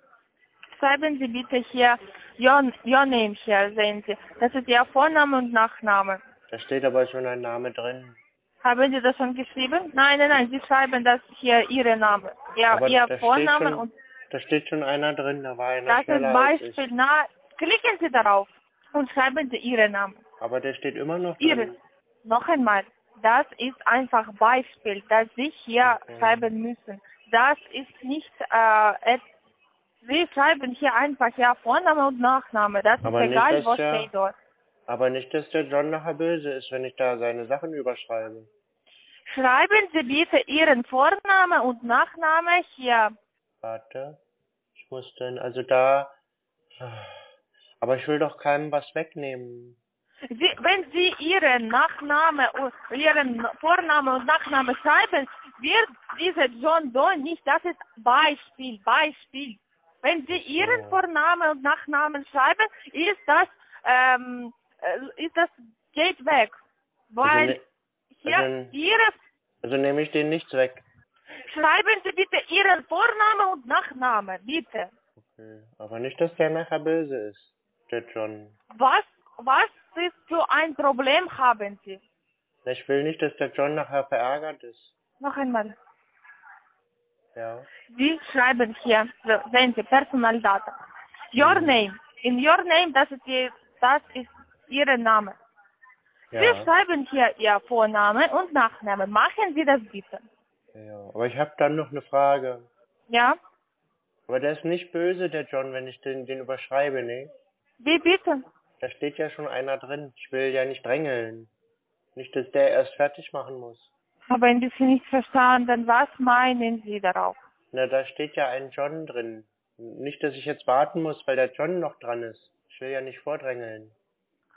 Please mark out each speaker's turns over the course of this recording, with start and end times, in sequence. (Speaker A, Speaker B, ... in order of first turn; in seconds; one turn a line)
Speaker A: 0.7-6.2
Speaker B: 6.5-8.2
Speaker A: 8.6-13.9
Speaker B: 12.7-16.8
Speaker A: 15.9-20.2
Speaker B: 20.4-21.8
Speaker A: 21.4-29.2
Speaker B: 25.8-26.5
Speaker A: 30.0-34.3
Speaker B: 33.0-34.1
Speaker B: 34.9-38.5
Speaker A: 39.3-43.1
Speaker B: 43.6-44.2
Speaker B: 44.8-46.1
Speaker B: 46.8-47.2
Speaker B: 47.8-49.8
Speaker A: 50.3-66.6
Speaker B: 60.6-61.0
Speaker A: 67.1-67.6
Speaker B: 67.2-67.6
Speaker A: 68.1-69.2
Speaker B: 68.3-68.8
Speaker B: 69.6-70.8
Speaker A: 71.5-74.9
Speaker B: 75.2-78.6
Speaker A: 78.7-82.0
Speaker B: 82.7-84.9
Speaker A: 85.2-85.7
Speaker B: 87.3-87.7
Speaker A: 87.9-90.8
Speaker A: 91.3-95.4
Speaker B: 91.4-91.8
Speaker B: 96.3-96.7
Speaker A: 96.3-100.3
Speaker B: 100.7-102.7
Speaker A: 103.1-103.4
Speaker B: 104.3-107.3
Speaker A: 107.8-108.4
Speaker B: 108.8-111.5
Speaker B: 112.2-113.9
Speaker A: 114.3-117.4
Speaker B: 117.7-123.9